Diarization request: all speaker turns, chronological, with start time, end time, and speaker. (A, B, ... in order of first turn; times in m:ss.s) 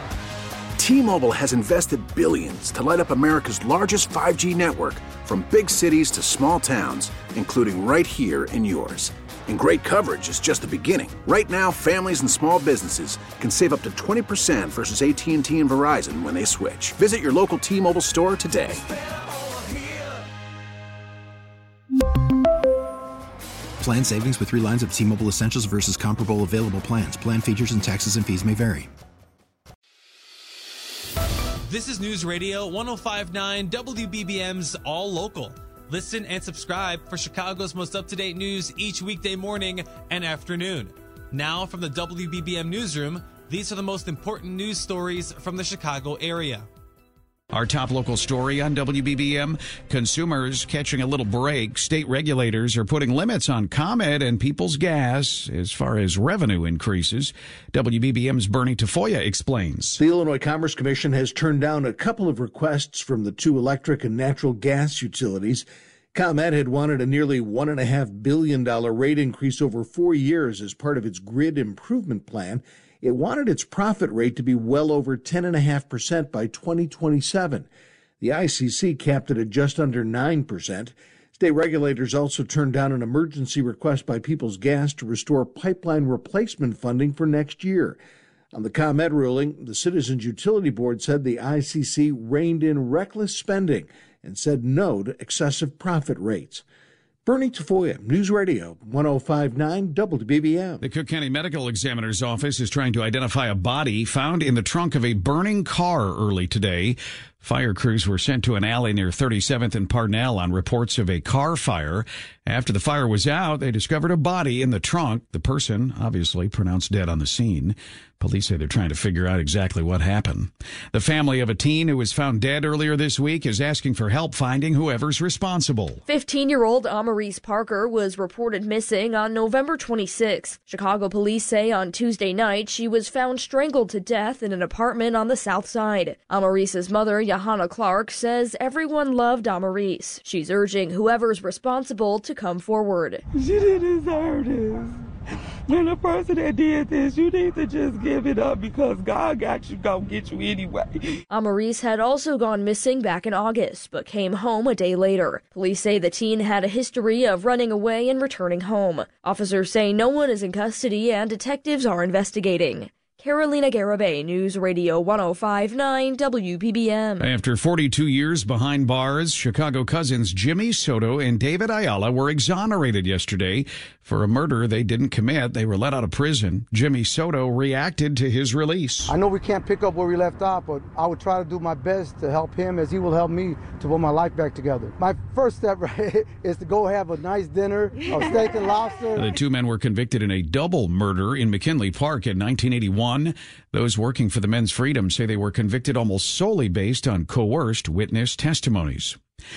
0:00.8-0:18.8 A
0:23.8-0:28.9 B
0:31.7-0:46.7 C
0:47.5-1:00.0 D
1:00.0-1:17.7 E
1:18.2-1:28.0 E
1:28.5-1:36.6 E
1:37.2-1:40.8 E
1:40.8-2:06.0 D
2:06.1-2:23.2 F
2:23.3-2:24.9 G
2:25.7-2:31.0 G
2:31.3-2:47.3 F
2:47.2-2:59.2 D
2:59.0-3:09.3 H
3:09.1-3:19.2 D